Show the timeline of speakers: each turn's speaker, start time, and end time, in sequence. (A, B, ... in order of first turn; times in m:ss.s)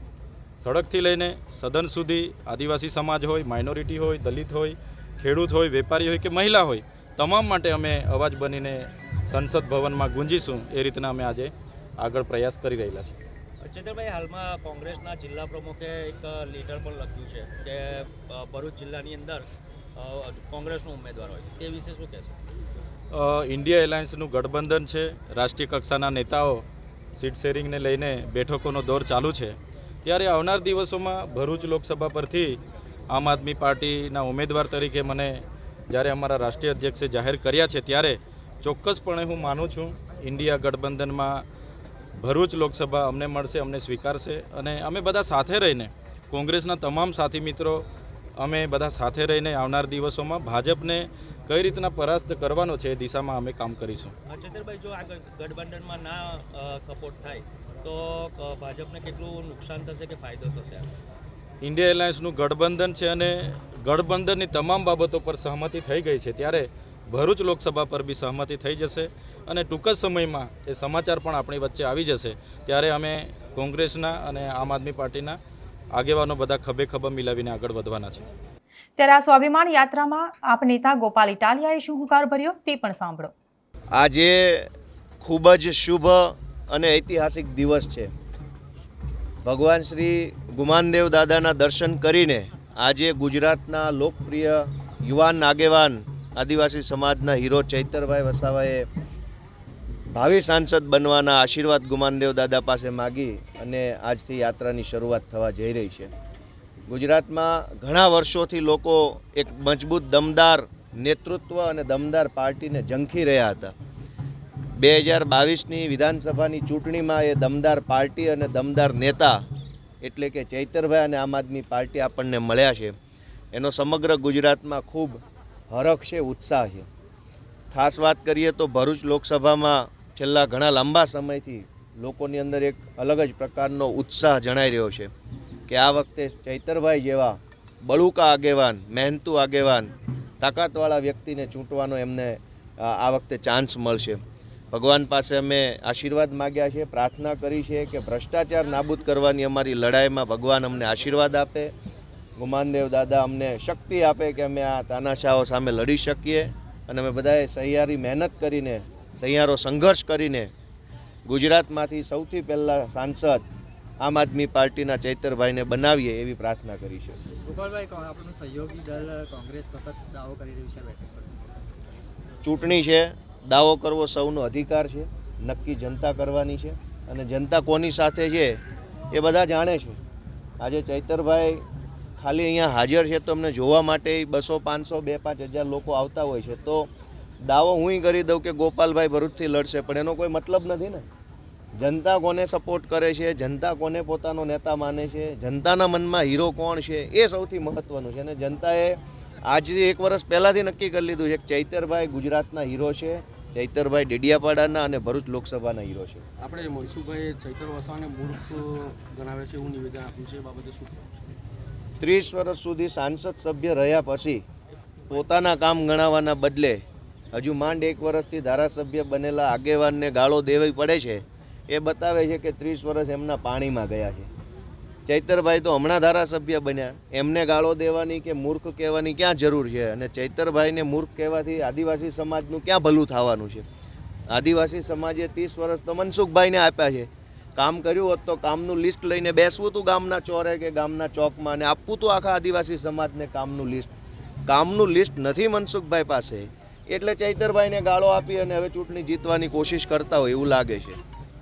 0:00.6-0:13.2 A
0:13.6-0:22.3 B
0:23.1-0:26.6 A
0:27.2-0:32.6 A
0:33.1-0:41.4 A
0:42.2-0:47.8 A
0:48.4-0:54.1 A
0:54.3-1:00.9 B
1:01.6-1:15.4 A
1:15.9-1:18.2 A
1:19.0-1:23.3 C
1:23.9-1:24.7 D
1:25.2-1:28.1 D
1:29.4-1:38.8 D
1:40.1-1:46.1 D
1:46.9-1:53.7 D
1:54.8-1:59.4 D
2:00.0-2:02.9 D
2:03.5-2:05.2 D
2:05.7-2:06.8 D
2:07.7-2:15.1 D
2:15.7-2:24.2 D
2:24.7-2:31.7 D
2:32.4-2:40.5 D
2:41.2-2:43.4 D
2:44.0-2:47.2 D
2:47.4-2:51.7 E
2:52.4-2:58.6 D
2:59.1-3:00.0 D
3:00.6-3:01.6 D
3:02.2-3:06.9 D
3:07.4-3:11.0 D
3:11.8-3:26.2 D
3:26.4-3:31.4 F
3:32.0-3:34.4 D
3:35.1-3:36.8 D
3:37.3-3:44.3 D
3:45.0-3:53.6 D
3:54.3-4:03.9 D
4:04.5-4:11.0 D